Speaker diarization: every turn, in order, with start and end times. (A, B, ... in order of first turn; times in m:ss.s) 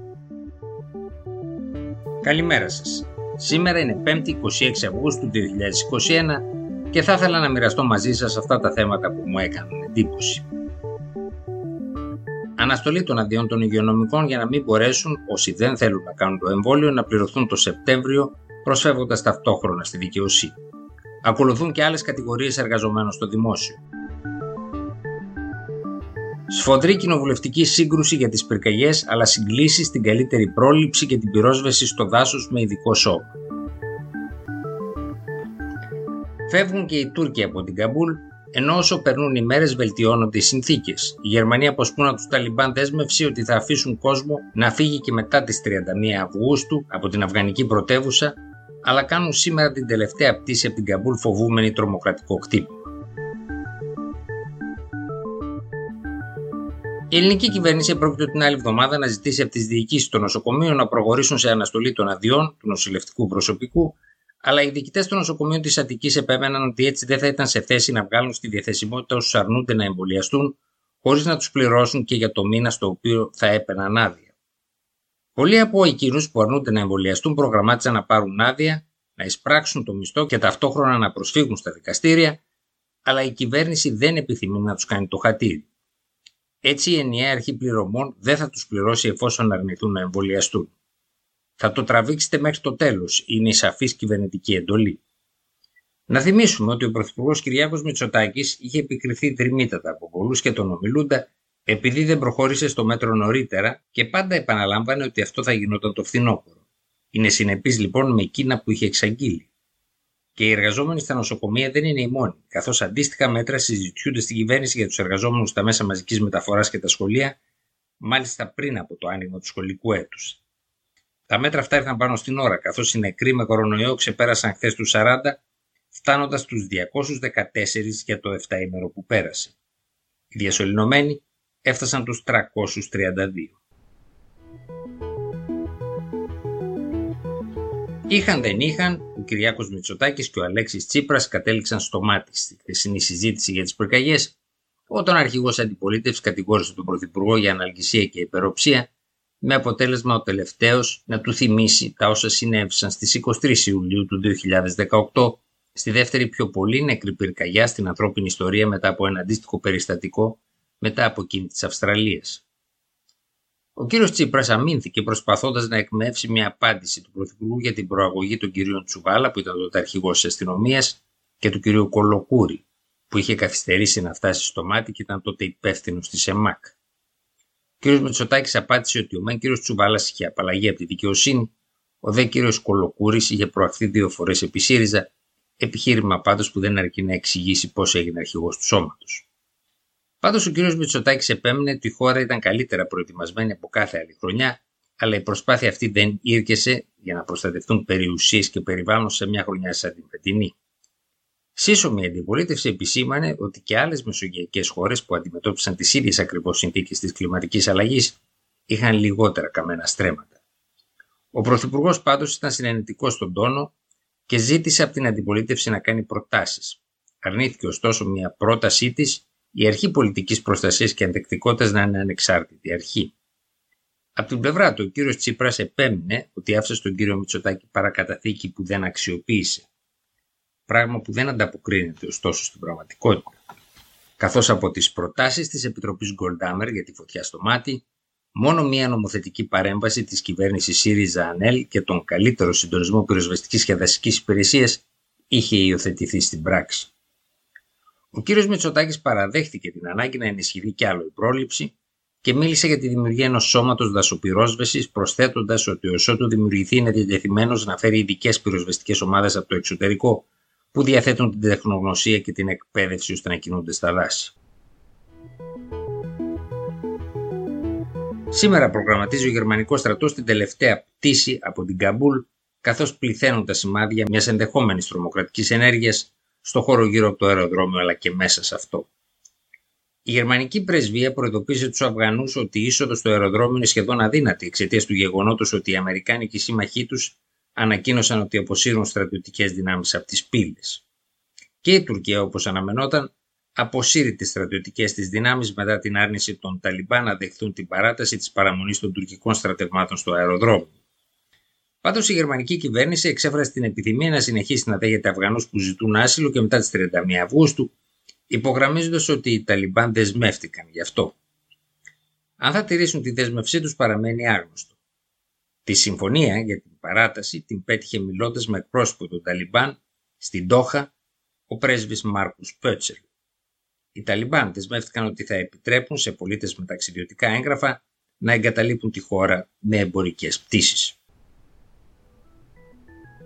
0:02.2-0:10.4 A
0:12.6-0:20.6 A
0:21.2-0:23.8 A
0:26.5-0:33.3 A
0:36.5-0:52.8 A
0:57.1-1:14.3 A
1:15.4-1:22.4 A
1:23.0-1:25.7 A
1:26.6-1:30.7 A
1:31.6-1:35.0 A
1:36.1-1:46.5 A
1:47.1-1:49.5 A
1:50.4-1:57.4 A
1:58.0-2:00.4 A
2:01.3-2:05.4 A
2:05.9-2:09.6 A
2:10.3-2:13.6 A
2:18.1-2:24.4 A
2:24.9-2:28.9 A
2:29.4-2:42.4 A
2:43.8-2:56.8 A
2:57.8-3:09.3 A
3:10.2-3:20.5 A
3:21.6-3:30.4 A
3:31.3-3:33.7 A
3:34.3-3:43.1 A
3:44.2-3:49.7 A
3:50.7-3:53.4 A
3:54.2-3:57.8 A
3:58.4-4:06.9 A
4:08.1-4:24.3 A
4:28.3-4:38.9 A
4:40.0-4:50.8 A
4:51.6-5:00.8 A
5:01.8-5:07.7 A
5:08.3-5:11.2 A
5:12.4-5:14.7 A
5:15.6-5:20.9 A
5:21.5-5:23.0 A
5:24.0-5:31.0 A